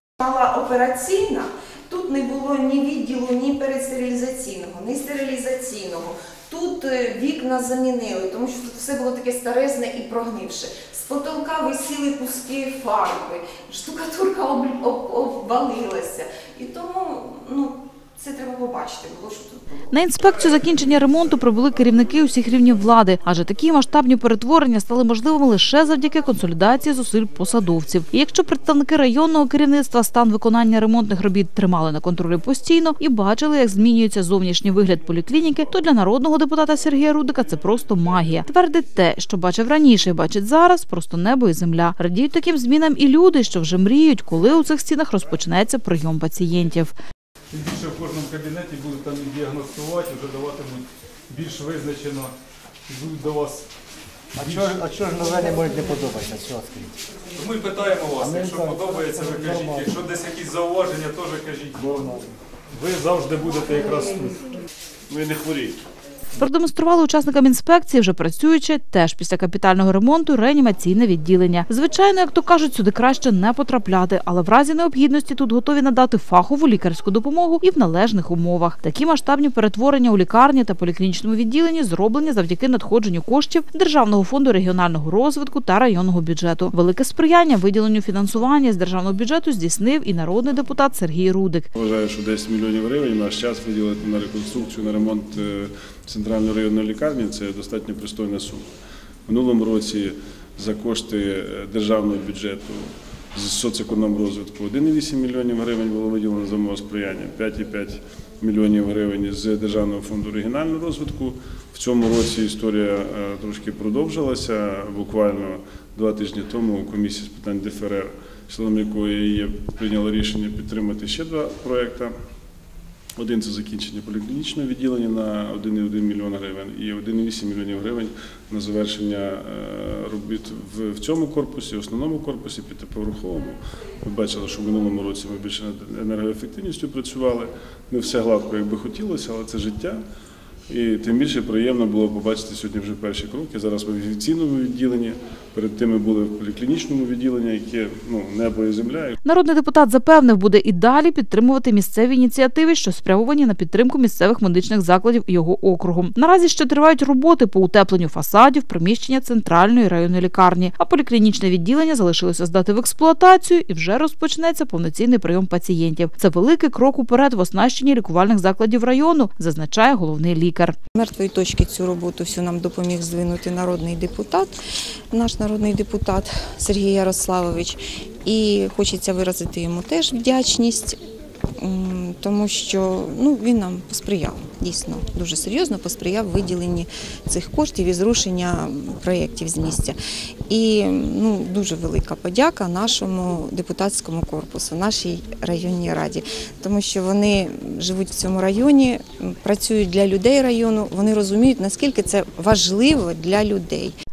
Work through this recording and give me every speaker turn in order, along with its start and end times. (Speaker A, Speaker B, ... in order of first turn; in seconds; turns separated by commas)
Speaker A: 0.2-19.7, Speaker B: 19.9-47.0, Speaker C: 47.5-52.3, Speaker C: 52.9-53.7, Speaker C: 54.4-56.5, Speaker D: 54.4-56.9, Speaker C: 57.3-64.5, Speaker E: 65.1-65.8, Speaker B: 66.4-91.7, Speaker E: 91.8-98.7, Speaker E: 99.3-122.1, Speaker E: 123.2-140.0, Speaker E: 140.7-149.2, Speaker B: 149.2-170.8, Speaker A: 170.9-174.6, Speaker A: 175.1-181.0, Speaker A: 181.6-190.0, Speaker A: 190.5-203.9